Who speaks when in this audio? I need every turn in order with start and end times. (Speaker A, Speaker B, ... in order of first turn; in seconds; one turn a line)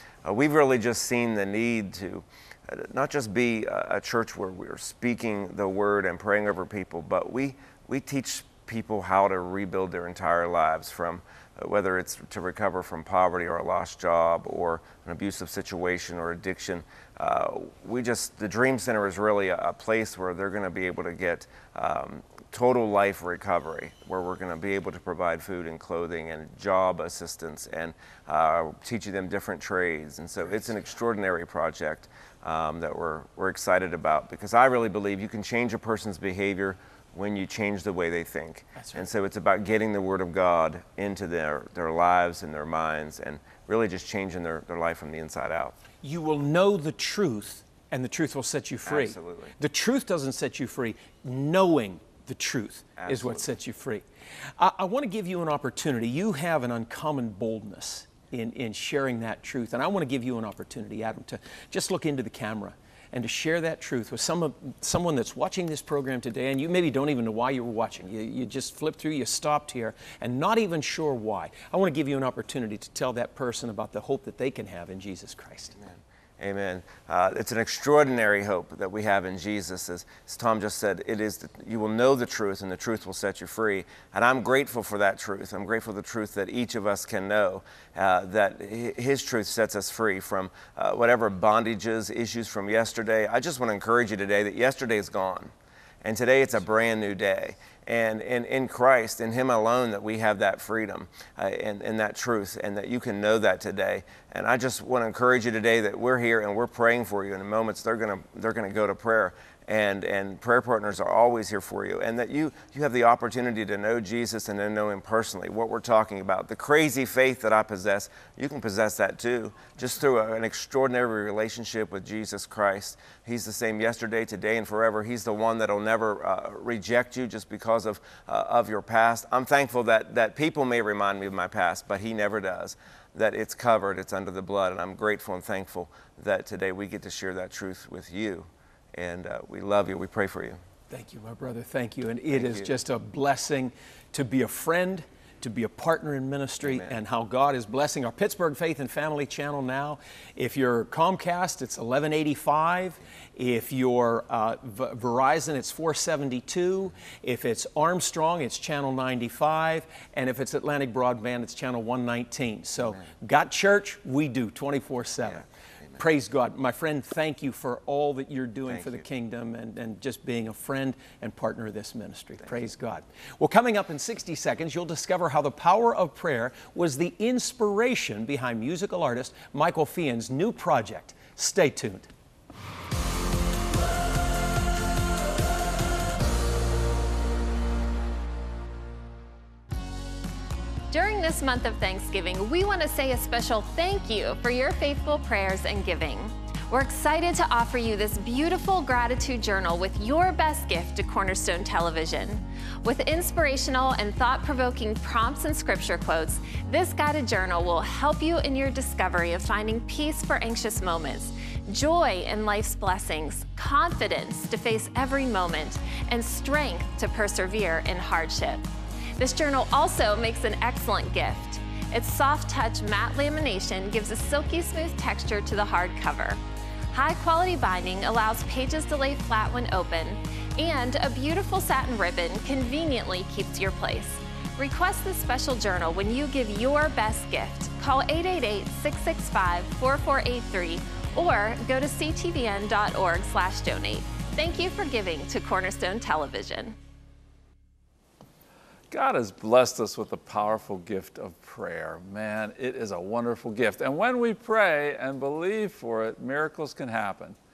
Speaker A: 0.2-45.8
Speaker B: 38.8-39.1
Speaker B: 46.0-54.0
Speaker A: 48.9-49.5
Speaker A: 53.0-53.5
Speaker B: 54.6-75.8
Speaker A: 75.8-140.6
Speaker B: 140.9-165.5
Speaker A: 142.3-142.8
Speaker A: 146.6-147.0
Speaker B: 166.0-182.1
Speaker A: 168.7-169.0
Speaker C: 190.9-226.4
Speaker C: 226.9-246.8
Speaker D: 248.9-257.4